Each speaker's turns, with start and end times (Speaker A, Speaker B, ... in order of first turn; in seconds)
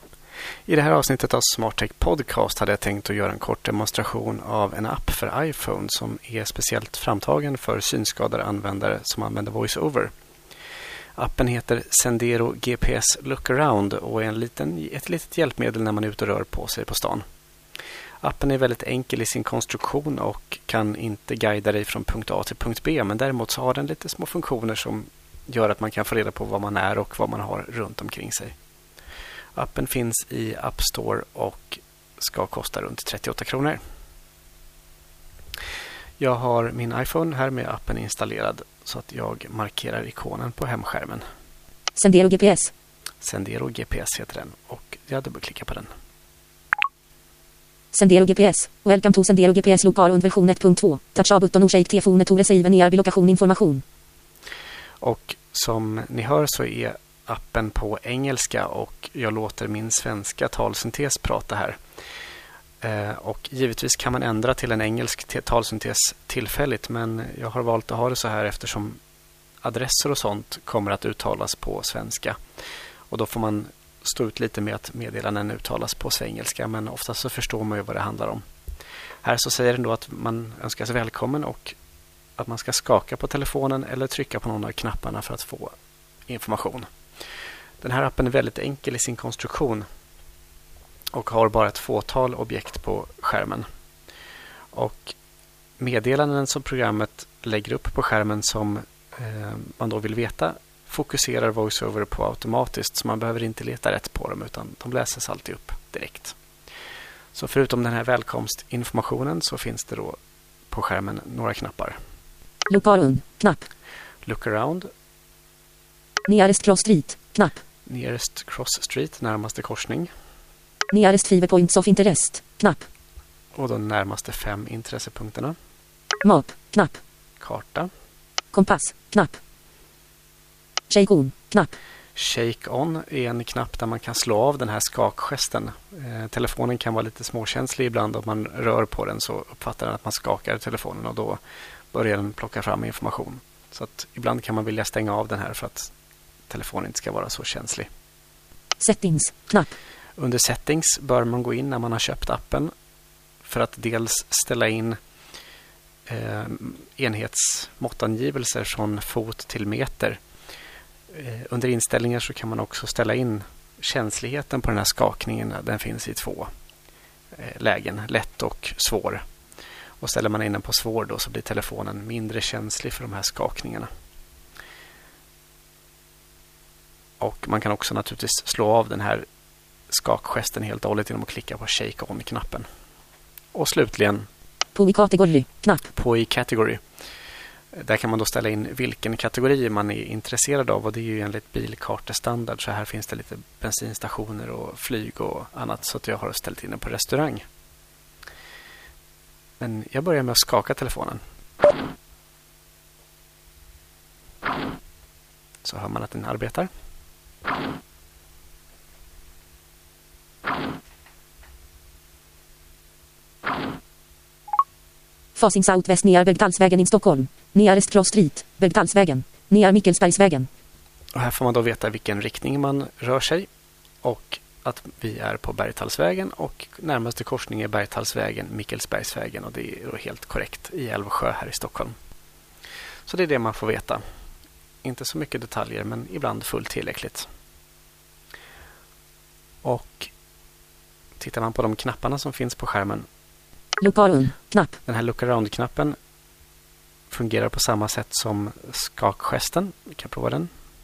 Speaker A: 0.7-10.1, 11.2-17.2, 18.2-28.6, 29.6-33.8, 36.2-41.2, 43.2-45.9, 55.0-61.8, 62.8-69.0, 69.6-72.4, 73.1-78.4, 79.2-81.8, 82.4-85.7, 86.3-86.9, 87.8-89.8, 91.1-93.7, 94.7-95.2, 95.8-106.4, 107.3-110.2, 110.7-112.0, 114.2-114.9, 117.9-120.1, 123.5-125.5, 127.4-127.9, 132.2-141.4, 141.9-145.9, 146.5-147.9, 150.2-152.7, 153.4-155.0, 156.1-160.2, 161.1-166.5, 167.3-169.2, 170.0-173.9, 177.2-179.3, 179.9-182.7, 183.5-184.3, 185.9-186.8, 187.7-197.4, 199.6-201.2, 205.6-206.7, 221.1-223.5, 224.0-231.9, 233.1-234.0, 234.8-237.3, 239.6-240.1, 241.2-243.1, 244.9-246.0, 247.1-250.5
Speaker B: 42.0-42.7, 47.9-53.8, 112.7-113.7, 116.3-117.6, 120.9-122.9, 126.2-127.0, 128.5-129.4, 130.9-131.8, 148.8-149.7, 184.8-185.8, 215.3-220.5, 243.8-244.7